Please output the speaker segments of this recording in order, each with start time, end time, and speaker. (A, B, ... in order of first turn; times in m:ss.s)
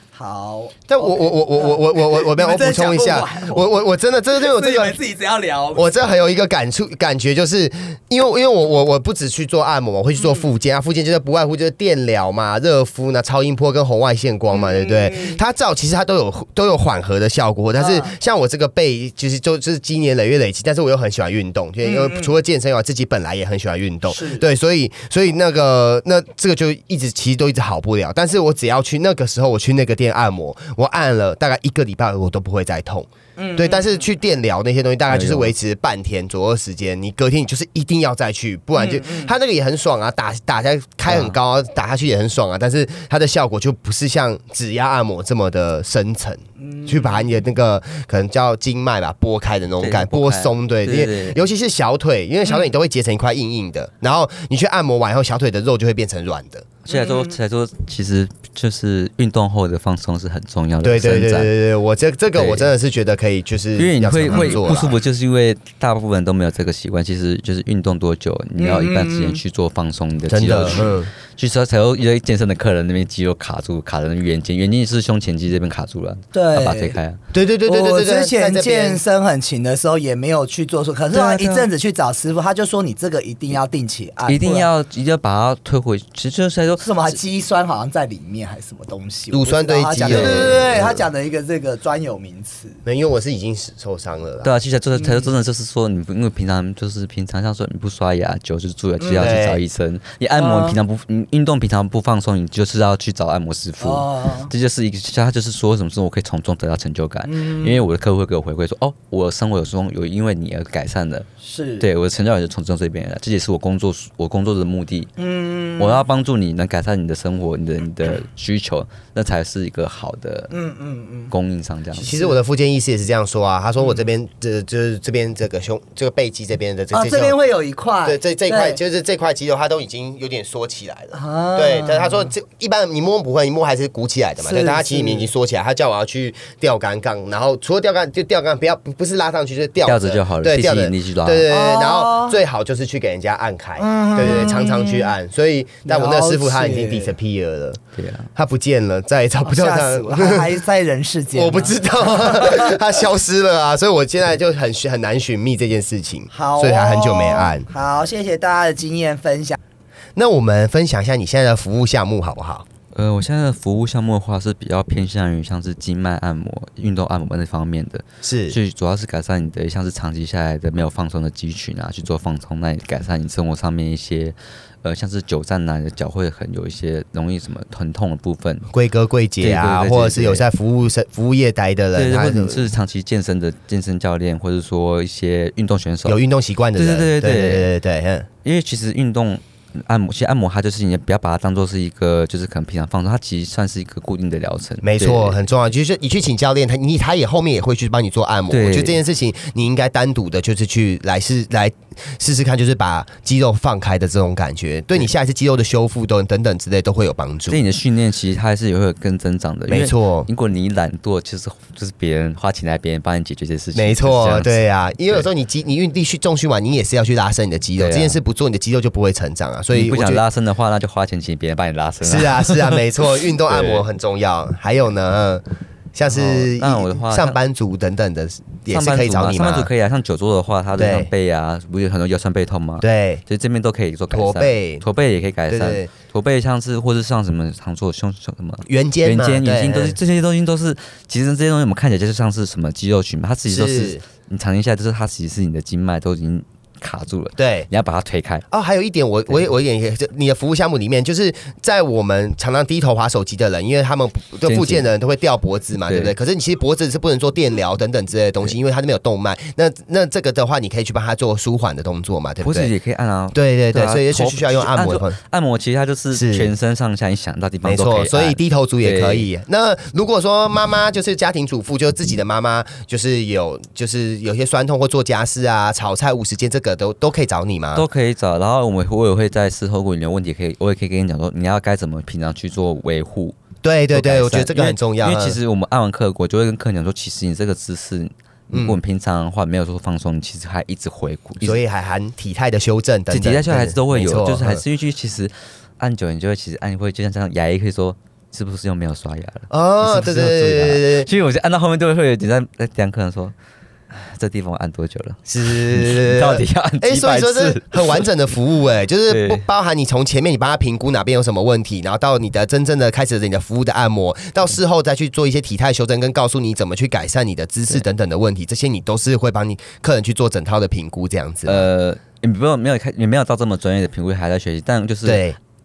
0:00.1-0:05.9 A
0:00.9-0:05.0 B
0:05.7-0:56.7 B
0:10.2-0:10.5 A
0:14.5-0:15.4 A
0:17.8-0:18.1 A
0:21.8-0:22.3 A
0:24.1-0:24.4 A
0:33.4-0:34.0 A
0:35.1-0:35.5 C
0:38.7-0:39.3 A
0:41.0-0:41.4 C
0:46.6-0:47.3 A
0:49.8-0:51.4 C
0:56.8-1:01.5 C
0:56.9-0:57.3 A
1:00.8-1:04.9 B
1:02.3-1:02.7 C
1:03.8-1:17.2 C
1:04.3-1:04.6 A
1:08.6-1:09.4 A
1:10.3-1:11.1 B
1:16.3-1:17.0 A
1:17.3-1:19.0 B
1:17.6-1:24.7 A
1:21.1-1:21.7 C
1:24.3-1:27.2 C
1:26.8-1:32.8 A
1:29.3-1:31.0 B
1:30.0-1:30.5 C
1:32.8-1:34.5 B
1:34.4-1:51.3 C
1:34.9-1:35.3 A
1:39.0-1:39.3 A
1:39.2-1:39.6 B
1:40.4-1:40.8 A
1:43.8-1:44.5 A
1:47.2-1:47.8 A
1:51.4-1:51.9 A
1:51.8-1:55.1 C
1:55.2-1:56.0 A
1:55.8-2:00.5 C
2:00.5-2:01.3 A
2:01.3-2:02.1 C
2:02.0-2:07.4 B
2:06.9-2:08.8 A
2:08.0-2:27.8 B
2:11.1-2:12.3 A
2:14.4-2:15.3 A
2:19.8-2:21.5 C
2:21.5-2:22.4 A
2:23.8-2:25.1 A
2:25.8-2:27.1 A
2:27.9-2:28.3 C
2:28.3-2:30.5 B
2:29.4-2:32.7 A
2:31.3-2:37.7 B
2:36.3-2:39.6 A
2:40.2-2:42.6 B
2:42.9-2:58.7 C
2:48.2-2:48.6 B
2:58.7-3:02.6 B
2:59.4-3:00.4 C
3:01.9-3:06.2 C
3:06.0-3:08.3 B
3:06.8-3:07.7 C
3:08.4-3:15.4 C
3:14.8-3:27.6 B
3:18.5-3:19.0 C
3:27.5-3:34.6 C
3:29.7-3:30.3 B
3:33.7-3:40.2 B
3:37.8-3:38.2 C
3:39.7-3:42.8 C
3:42.0-3:49.7 B
3:43.5-3:43.8 C
3:46.1-3:47.4 C
3:48.7-4:08.4 C
3:50.8-3:51.1 B
3:52.8-3:53.2 B
3:54.1-3:54.8 B
3:55.5-3:55.9 B
3:58.7-4:00.0 B
4:03.5-4:04.0 B
4:07.4-4:07.7 B
4:08.5-4:22.7 B
4:14.4-4:14.9 C
4:15.9-4:16.1 C
4:22.4-4:29.3 C
4:23.3-4:25.2 B
4:26.1-4:26.5 B
4:27.6-4:37.8 B
4:37.7-4:43.4 C
4:43.6-4:45.4 B
4:43.9-4:51.6 C
4:48.5-4:48.8 B
4:51.4-4:54.6 B
4:53.1-5:03.3 C
4:59.5-5:01.1 B
5:03.9-5:08.0 C
5:05.3-5:21.6 B
5:09.1-5:09.4 C
5:21.4-5:25.3 C
5:25.0-5:25.4 B